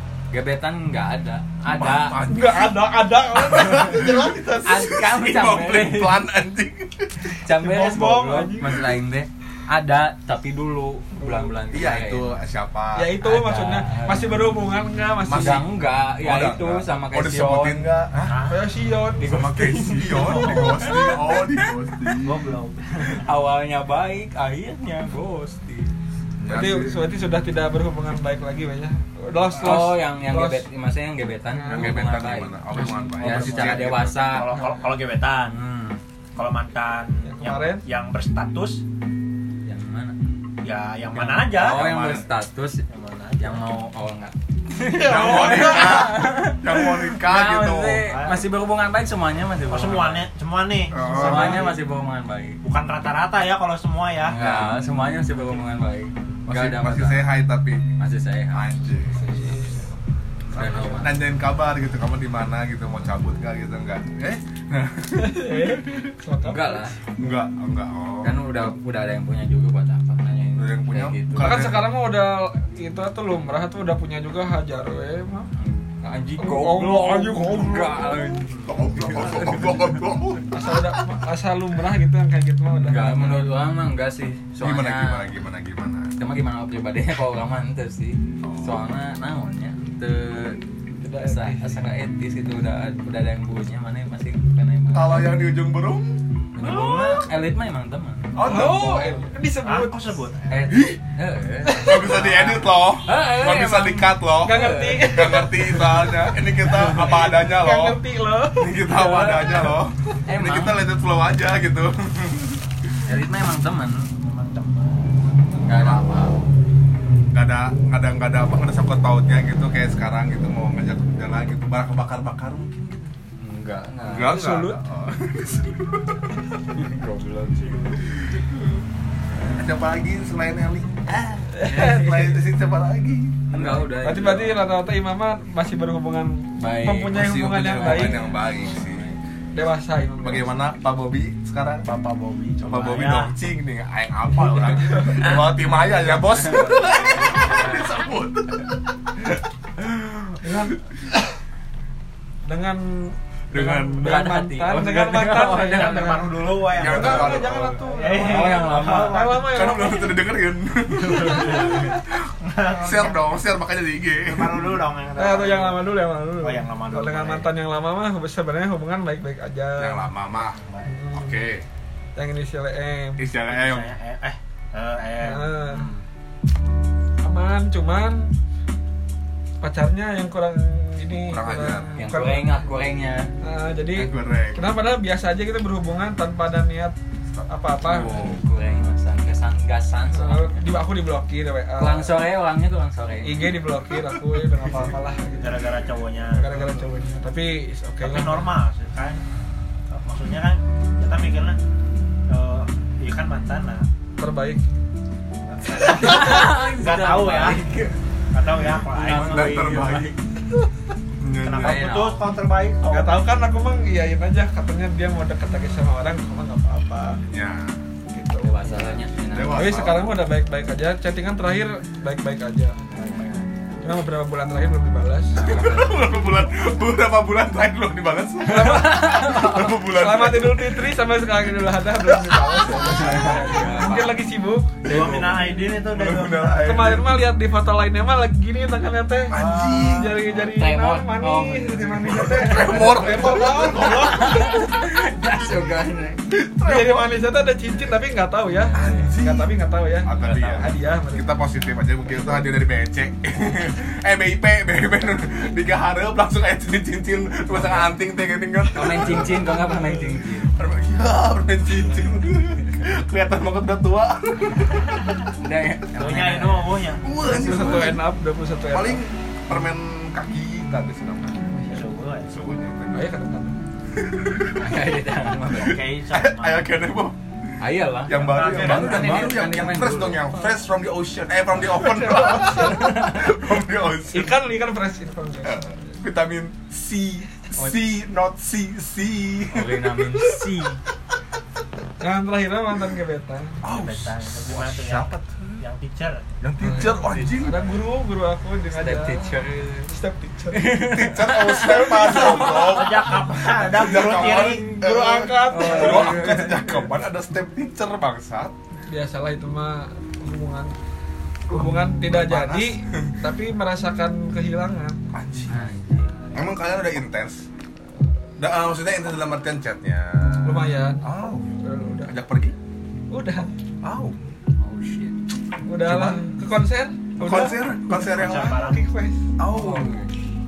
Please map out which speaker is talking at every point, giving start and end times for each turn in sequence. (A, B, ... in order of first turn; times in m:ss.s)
0:00.3-0:02.2 A
0:01.7-0:07.4 B
0:02.3-0:04.2 C
0:04.6-0:06.2 A
0:07.4-0:12.3 A
0:07.6-0:08.9 C
0:11.2-0:11.5 C
0:11.7-0:13.1 B
0:13.0-0:15.6 C
0:13.2-0:14.5 A
0:15.2-0:15.7 B
0:15.3-0:17.9 A
0:16.2-0:18.3 B
0:18.3-0:18.6 D
0:18.5-0:19.3 C
0:19.2-0:21.4 A
0:19.2-0:22.5 B
0:20.0-0:21.1 D
0:22.2-0:23.3 D
0:23.1-0:25.9 A
0:26.4-0:27.0 B
0:26.5-0:30.6 C
0:29.5-0:34.6 A
0:31.5-0:32.1 C
0:31.7-0:34.4 B
0:32.8-0:33.1 C
0:33.2-0:35.6 D
0:35.4-0:36.0 A
0:36.4-0:38.8 D
0:37.3-0:37.8 C
0:39.6-0:40.2 A
0:40.6-0:41.9 D
0:41.1-0:42.8 A
0:41.6-0:42.3 B
0:42.9-0:43.7 D
0:43.4-0:50.3 A
0:44.8-0:46.1 C
0:44.9-0:48.1 B
0:48.0-0:48.5 D
0:49.7-0:51.8 D
0:50.9-0:51.7 B
0:51.1-0:52.6 A
0:52.6-0:54.4 D
0:54.2-0:57.3 A
0:54.3-0:54.8 B
0:56.5-0:57.8 B
0:58.0-0:58.6 A
0:58.5-0:59.6 B
0:59.2-0:59.8 C
1:00.5-1:06.0 B
1:00.5-1:01.2 A
1:05.2-1:06.9 C
1:06.4-1:07.0 A
1:07.2-1:08.4 B
1:08.2-1:11.8 A
1:10.6-1:11.9 B
1:11.4-1:15.5 C
1:15.6-1:20.0 A
1:16.4-1:18.0 C
1:18.6-1:21.0 B
1:19.0-1:19.8 D
1:20.5-1:23.5 C
1:22.8-1:25.3 A
1:24.6-1:26.1 B
1:26.2-1:30.6 A
1:28.4-1:28.8 B
1:31.0-1:31.8 C
1:31.2-1:35.3 A
1:34.9-1:37.1 B
1:36.6-1:38.7 A
1:38.3-1:39.3 B
1:38.4-1:40.1 C
1:39.6-1:40.8 D
1:40.5-1:45.4 A
1:40.7-1:41.0 B
1:41.6-1:42.1 C
1:41.8-1:48.0 B
1:44.4-1:48.7 C
1:46.7-1:47.1 A
1:48.6-1:52.6 B
1:48.9-1:50.8 A
1:53.1-1:54.1 A
1:54.2-1:55.3 D
1:55.6-1:56.4 A
1:55.8-1:56.0 B
1:57.3-2:03.1 B
2:03.4-2:04.3 A
2:04.0-2:06.5 B
2:04.2-2:04.8 C
2:06.7-2:08.0 A
2:08.0-2:08.8 B
2:09.5-2:13.8 B
2:11.6-2:12.3 C
2:11.7-2:12.2 A
2:13.5-2:14.6 A
2:14.0-2:18.2 C
2:16.6-2:19.2 A
2:17.1-2:19.1 B
2:19.5-2:20.5 C
2:20.2-2:21.9 B
2:21.8-2:23.3 D
2:22.6-2:30.5 B
2:25.1-2:28.0 A
2:30.4-2:30.8 C
2:32.5-2:40.2 C
2:33.5-2:34.2 B
2:34.0-2:36.6 A
2:35.6-2:39.7 D
2:36.7-2:37.8 B
2:38.1-2:39.4 A
2:39.4-2:44.8 B
2:41.0-2:43.3 D
2:41.3-2:41.8 A
2:44.2-2:47.5 D
2:45.2-2:50.1 C
2:49.8-2:50.6 B
2:50.4-2:51.0 D
2:50.9-2:51.4 C
2:51.1-2:51.6 B
2:52.2-2:53.2 C
2:53.2-2:54.0 B
2:53.5-2:56.0 D
2:55.2-2:55.9 C
2:57.2-2:58.3 C
2:59.6-3:02.6 C
3:01.3-3:01.9 B
3:02.0-3:03.3 A
3:03.4-3:07.0 C
3:03.9-3:04.7 B
3:07.3-3:08.5 B
3:07.5-3:08.3 C
3:07.9-3:10.7 A
3:10.1-3:12.2 C
3:11.8-3:13.6 A
3:13.2-3:15.6 C
3:15.4-3:16.5 D
3:16.3-3:18.6 C
3:16.4-3:16.8 B
3:18.0-3:19.2 D
3:19.9-3:21.6 D
3:22.3-3:23.9 D
3:24.2-3:24.6 C
3:25.5-3:27.6 D
3:25.8-3:26.5 C
3:25.9-3:28.0 A
3:28.3-3:29.9 D
3:28.8-3:30.2 A
3:29.1-3:30.2 B
3:31.2-3:32.0 B
3:31.4-3:33.2 D
3:31.5-3:32.3 A
3:32.9-3:37.2 C
3:37.3-3:37.8 B
3:38.1-3:38.9 C
3:38.4-3:39.8 A
3:39.3-3:40.1 B
3:39.5-3:42.8 C
3:42.9-3:43.5 D
3:43.8-3:45.4 C
3:45.3-3:46.0 A
3:45.4-3:50.8 B
3:48.5-3:49.2 C
3:48.5-3:49.8 A
3:49.9-3:55.1 C
3:52.0-3:53.6 B
3:52.8-3:54.2 A
3:54.8-3:57.2 B
3:54.8-3:56.9 D
3:56.6-4:04.6 C
3:59.3-4:00.2 B
3:59.4-4:03.0 A
4:02.1-4:04.8 B
4:03.9-4:06.2 A
4:06.3-4:07.1 B
4:06.6-4:11.3 C
4:08.5-4:09.2 A
4:08.7-4:25.3 B
4:10.2-4:10.7 A
4:17.5-4:17.9 A
4:18.7-4:20.5 A
4:25.3-4:26.8 A
4:26.0-4:27.1 D
4:27.0-4:28.0 B
4:27.2-4:29.0 C
4:28.7-4:31.6 B
4:31.7-4:32.3 D
4:32.3-4:33.1 B
4:32.9-4:33.6 C
4:33.9-4:34.8 B
4:34.6-4:35.9 A
4:35.5-4:37.2 B
4:35.6-4:36.7 D
4:37.6-4:40.2 A
4:38.1-4:44.4 B
4:38.1-4:39.5 D
4:41.7-4:42.9 C
4:42.2-4:43.4 A
4:44.1-4:46.0 C
4:45.4-4:50.5 B
4:49.5-4:50.8 A
4:52.0-4:53.6 C
4:53.6-4:55.6 B
4:53.7-4:56.3 D
4:56.4-4:57.6 B
4:56.6-4:59.3 C
4:56.7-4:57.3 A
4:58.7-4:59.9 A
4:59.9-5:00.8 C
5:00.5-5:03.8 A
5:00.7-5:08.5 B
5:02.1-5:04.7 D
5:04.3-5:06.3 C
5:05.5-5:06.9 A
5:08.9-5:10.7 C
5:11.5-5:13.2 B
5:11.5-5:15.0 C
5:15.1-5:15.7 B
5:15.5-5:16.3 A
5:16.3-5:17.5 B
5:18.4-5:21.5 B
5:20.4-5:21.0 C
5:21.6-5:22.1 C
5:22.1-5:22.6 B
5:23.1-5:23.5 C
5:23.8-5:24.3 B
5:24.6-5:25.2 A
5:25.7-5:29.3 C
5:25.8-5:26.2 B
5:27.2-5:28.7 B
5:28.0-5:28.8 D
5:29.4-5:30.1 B
5:29.5-5:30.1 A